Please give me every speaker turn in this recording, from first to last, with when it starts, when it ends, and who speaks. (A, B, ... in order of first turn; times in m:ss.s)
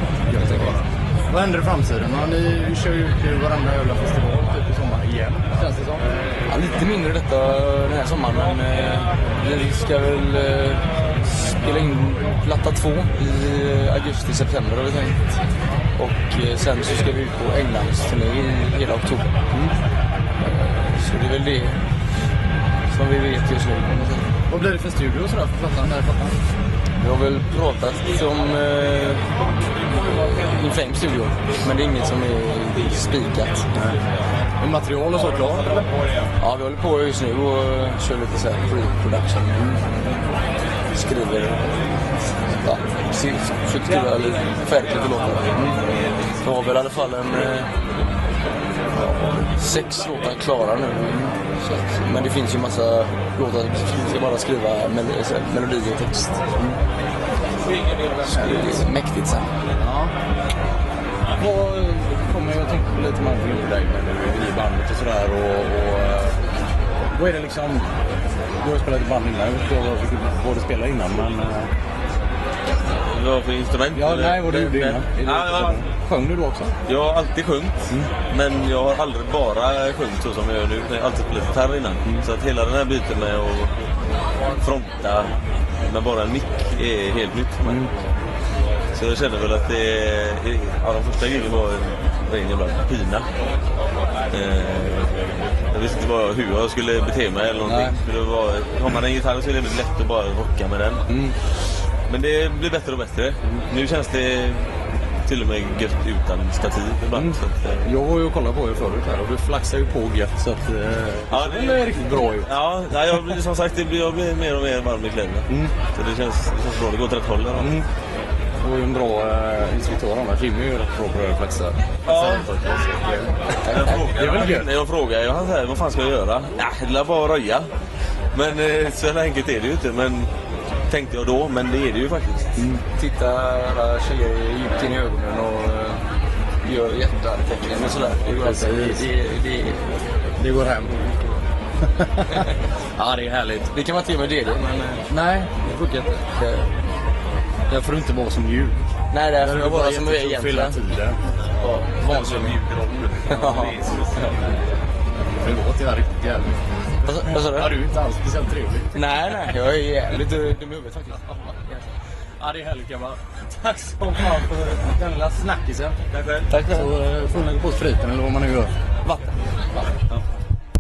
0:00.3-0:06.3 A
0:00.3-0:00.8 B
0:06.4-0:15.2 B
0:15.9-0:19.3 B
0:20.4-0:21.8 B
0:22.9-0:24.3 B
0:24.5-0:26.4 A
0:27.0-0:29.4 B
0:29.9-0:33.7 B
0:34.6-0:35.8 A
0:36.4-0:40.0 B
0:40.9-0:41.8 B
0:42.6-0:45.8 B
0:46.4-0:47.8 B
0:49.0-0:56.4 B
0:57.8-0:59.6 B
0:58.1-0:58.8 A
0:59.8-1:00.1 A
1:01.4-1:06.4 A
1:07.1-1:07.9 A
1:08.6-1:11.7 A
1:12.9-1:15.8 C
1:13.9-1:16.8 A
1:16.8-1:17.8 C
1:18.3-1:23.8 C
1:24.5-1:27.9 C
1:28.9-1:33.3 C
1:34.3-1:41.1 C
1:37.6-1:38.0 A
1:41.1-1:41.4 A
1:42.1-1:44.7 C
1:45.2-1:47.9 C
1:47.1-1:52.5 A
1:51.3-1:57.8 C
1:55.5-1:55.7 A
1:57.6-1:57.9 A
1:58.6-2:03.3 A
2:02.0-2:02.5 C
2:03.6-2:04.0 B
2:03.7-2:07.7 C
2:04.1-2:04.7 A
2:08.3-2:10.3 C
2:10.9-2:12.6 C
2:12.6-2:12.8 A
2:12.9-2:16.1 B
2:16.6-2:20.0 B
2:18.3-2:19.0 A
2:20.4-2:21.3 A
2:21.9-2:22.2 A
2:23.0-2:23.7 A
2:23.7-2:25.0 B
2:25.1-2:26.2 A
2:26.4-2:26.7 B
2:27.7-2:28.8 A
2:29.1-2:30.8 B
2:29.4-2:31.3 A
2:31.6-2:32.6 B
2:31.6-2:34.4 C
2:32.1-2:32.6 A
2:33.2-2:34.3 B
2:35.4-2:39.0 A
2:37.0-2:37.7 B
2:38.9-2:41.7 B
2:42.4-2:46.0 A
2:46.1-2:46.5 C
2:46.5-2:46.9 B
2:46.6-2:48.7 A
2:49.0-2:49.3 B